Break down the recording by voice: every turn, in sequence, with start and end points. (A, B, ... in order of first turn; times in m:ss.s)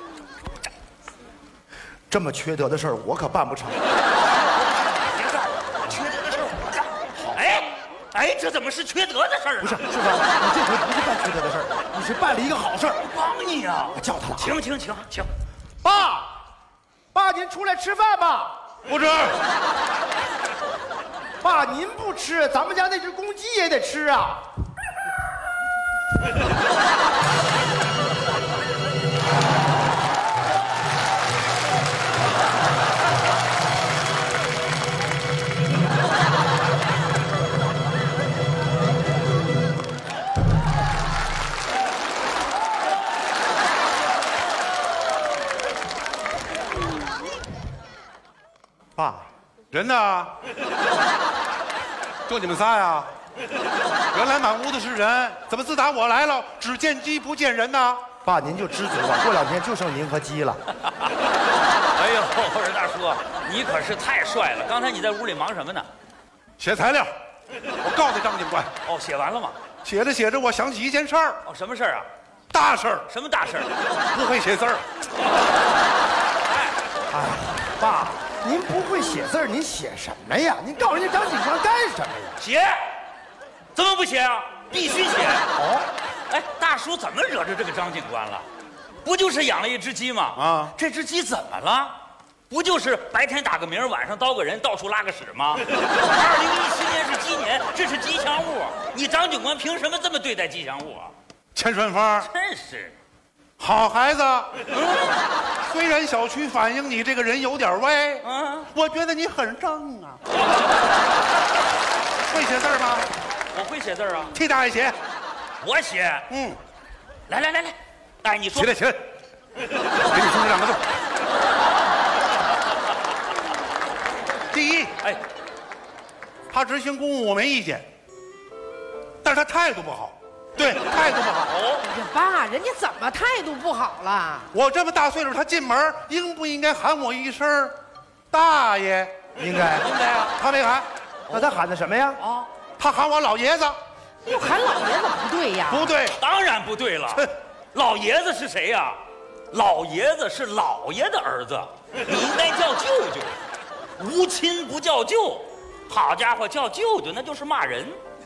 0:02.1-0:03.9 A
0:04.5-0:09.8 B
0:09.6-0:13.0 A
0:13.0-0:15.3 B
0:13.9-0:14.6 A
0:15.8-0:16.4 A
0:17.1-0:18.8 A
0:18.9-0:19.4 C
0:21.4-0:24.5 A
0:49.0-0:49.3 A
0:49.7-0:50.3 C
0:52.3-0:53.1 C
0:54.1-0:58.1 C
0:58.2-1:00.6 A
1:01.9-1:05.9 B
1:06.6-1:07.1 C
1:07.8-1:08.7 C
1:08.8-1:09.6 B
1:09.8-1:11.4 C
1:11.4-1:12.1 B
1:12.5-1:13.1 C
1:13.1-1:13.7 B
1:14.1-1:14.8 C
1:17.1-1:22.4 A
1:22.4-1:22.8 B
1:23.7-1:25.5 B
1:25.5-1:25.9 A
1:26.3-1:28.4 B
1:29.0-1:32.0 B
1:30.4-1:30.7 C
1:32.5-1:41.1 B
1:41.5-1:42.3 C
1:42.2-1:43.0 B
1:43.6-1:44.5 C
1:44.7-1:45.2 B
1:45.6-1:50.2 C
1:48.2-1:48.7 B
1:52.3-1:53.1 C
1:53.5-1:54.3 B
1:54.3-1:55.0 C
1:55.6-1:56.3 B
1:56.3-1:56.6 C
1:57.3-1:58.7 B
1:58.5-1:59.0 C
2:00.0-2:00.8 C
2:04.5-2:05.0 C
2:06.5-2:07.8 C
2:09.2-2:11.5 C
2:11.5-2:11.8 B
2:11.8-2:14.5 D
2:14.5-2:17.8 C
2:18.3-2:19.1 C
2:19.4-2:19.9 A
2:19.8-2:20.4 B
2:20.4-2:20.9 C
2:21.3-2:22.2 A
2:22.2-2:22.5 B
2:22.8-2:23.8 C
2:24.2-2:25.8 D
2:25.7-2:26.2 C
2:26.2-2:29.0 B
2:29.5-2:33.4 B
2:34.0-2:38.0 B